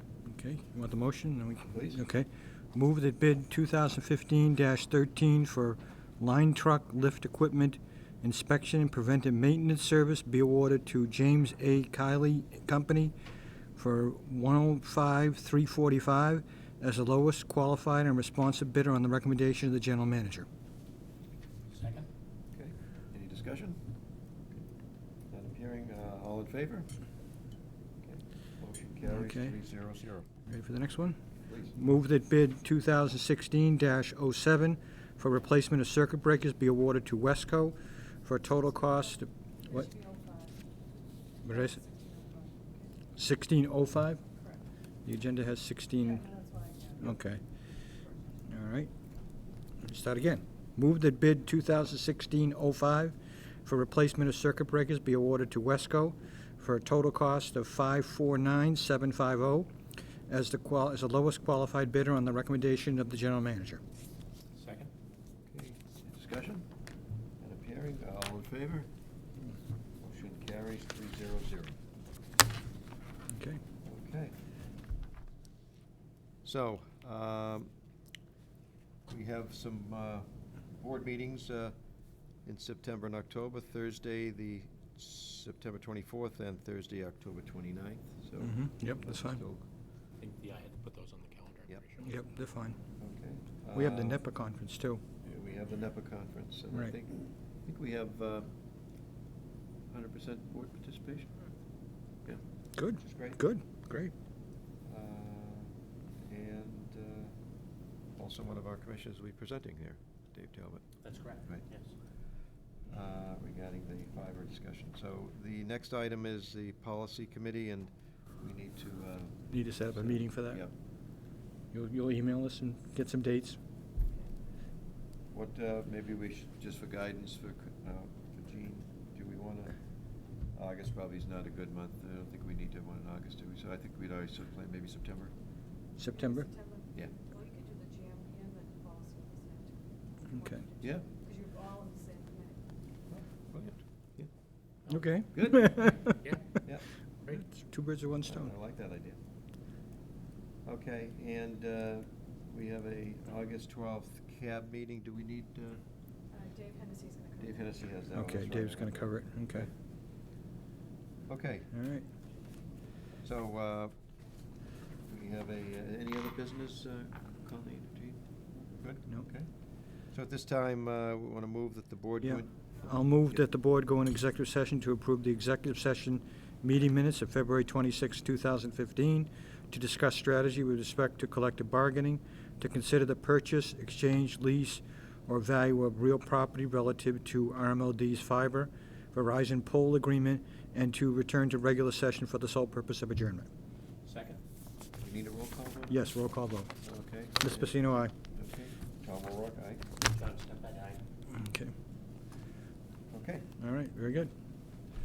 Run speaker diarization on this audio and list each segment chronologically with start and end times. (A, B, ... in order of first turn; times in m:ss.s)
0:00.3-0:13.1 A
0:01.7-0:02.0 B
0:13.8-0:20.5 A
0:21.7-0:22.1 C
0:22.5-0:23.8 B
0:25.3-0:26.9 B
0:28.0-0:30.3 B
0:29.1-0:29.5 A
0:30.5-0:31.2 A
0:31.5-0:31.8 B
0:31.7-0:39.9 A
0:39.7-0:40.6 D
0:41.4-0:41.8 A
0:41.5-0:42.9 D
0:43.2-0:44.2 A
0:45.0-0:46.3 A
0:46.2-0:47.0 D
0:47.0-0:47.4 A
0:48.5-0:48.9 A
0:49.8-0:59.7 A
1:00.3-1:03.8 A
1:04.6-1:04.9 C
1:05.5-1:06.7 B
1:07.4-1:08.9 B
1:10.0-1:11.8 B
1:13.3-1:13.6 A
1:13.8-1:14.4 B
1:16.4-1:17.7 B
1:19.1-1:21.8 B
1:22.4-1:29.6 B
1:28.4-1:29.4 A
1:30.2-1:32.0 C
1:32.0-1:32.8 A
1:33.0-1:34.2 B
1:33.7-1:35.0 A
1:35.2-1:38.5 B
1:39.9-1:41.3 B
1:42.8-1:44.1 A
1:43.0-1:43.4 B
1:44.8-1:45.7 B
1:46.2-1:47.3 B
1:48.1-1:50.8 B
1:51.0-1:51.9 C
1:52.9-2:00.7 B
1:59.5-2:00.6 A
2:01.7-2:03.6 A
2:05.3-2:15.3 B
2:16.0-2:16.5 A
2:16.4-2:19.8 D
2:20.3-2:20.6 A
2:20.3-2:22.6 D
2:20.8-2:21.0 B
2:23.1-2:24.3 B
2:24.9-2:26.4 A
2:25.3-2:25.7 B
2:27.3-2:28.5 A
2:28.2-2:29.2 B
2:30.6-2:35.8 B
2:36.3-2:37.4 D
2:37.4-2:39.7 B
2:38.1-2:39.7 A
2:41.3-2:41.7 B
2:41.7-2:42.1 A
2:43.2-2:43.9 B
2:45.1-2:49.5 B
2:50.1-2:53.4 B
2:52.2-3:13.5 A
3:14.0-3:14.4 C
3:15.0-3:16.1 B
3:15.9-3:16.7 A
3:16.8-3:19.8 B
3:17.4-3:18.1 A
3:20.0-3:21.0 C
3:21.3-3:21.7 A
3:23.1-3:23.5 B
3:23.6-3:24.3 A